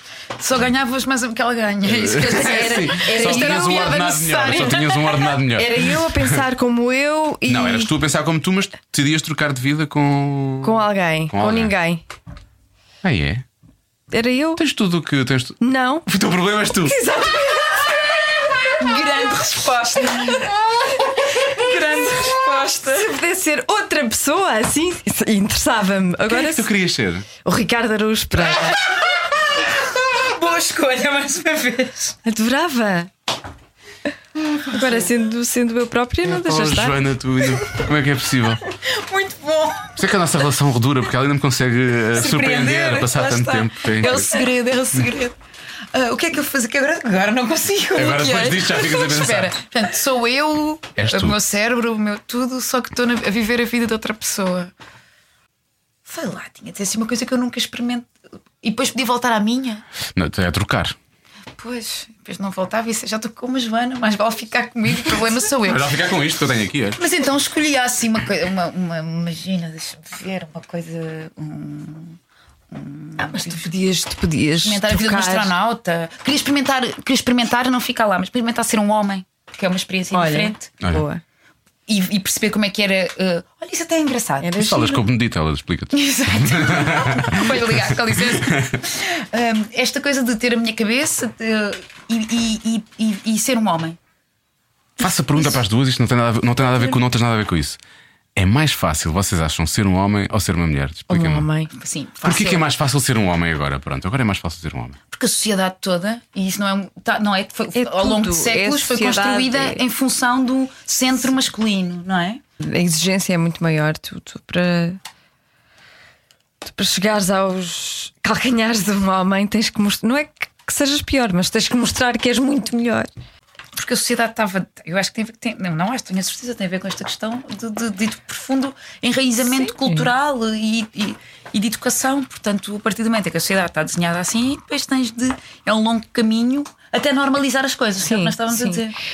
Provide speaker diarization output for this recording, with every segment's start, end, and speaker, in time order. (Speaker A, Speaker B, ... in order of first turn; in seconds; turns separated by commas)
Speaker A: 0.4-5.1, Speaker B: 1.8-6.4, Speaker C: 2.2-4.8, Speaker C: 5.5-7.9, Speaker B: 7.5-11.7, Speaker C: 10.6-12.0, Speaker B: 13.0-13.4, Speaker C: 14.1-14.6, Speaker B: 14.6-16.9, Speaker C: 15.6-16.1, Speaker C: 16.8-18.9, Speaker A: 18.8-22.9, Speaker C: 21.3-26.7, Speaker B: 26.3-27.3, Speaker C: 27.4-28.8, Speaker A: 28.9-32.2, Speaker C: 32.2-33.1, Speaker C: 34.6-37.1, Speaker B: 36.2-38.6, Speaker A: 38.8-40.0, Speaker B: 40.0-44.3, Speaker A: 42.1-45.4, Speaker C: 43.2-44.4, Speaker A: 45.9-54.7, Speaker B: 47.9-49.5, Speaker B: 51.0-51.4, Speaker A: 56.0-58.1, Speaker A: 58.6-59.8, Speaker B: 60.1-61.0, Speaker A: 61.6-65.9, Speaker B: 65.6-67.0, Speaker A: 67.0-72.2, Speaker A: 72.7-73.7, Speaker C: 73.2-75.5, Speaker A: 74.6-80.7, Speaker C: 80.1-81.2, Speaker A: 81.9-84.6, Speaker C: 84.4-85.0, Speaker B: 84.6-88.8, Speaker A: 85.9-94.0, Speaker B: 95.0-97.8, Speaker A: 95.0-95.6, Speaker B: 98.3-101.5, Speaker C: 101.1-101.7, Speaker A: 101.7-102.7, Speaker B: 102.2-105.0, Speaker A: 105.1-112.4, Speaker C: 107.7-109.8, Speaker C: 112.6-115.0, Speaker C: 116.6-123.1, Speaker A: 123.8-138.9, Speaker C: 129.4-130.1, Speaker C: 138.0-138.8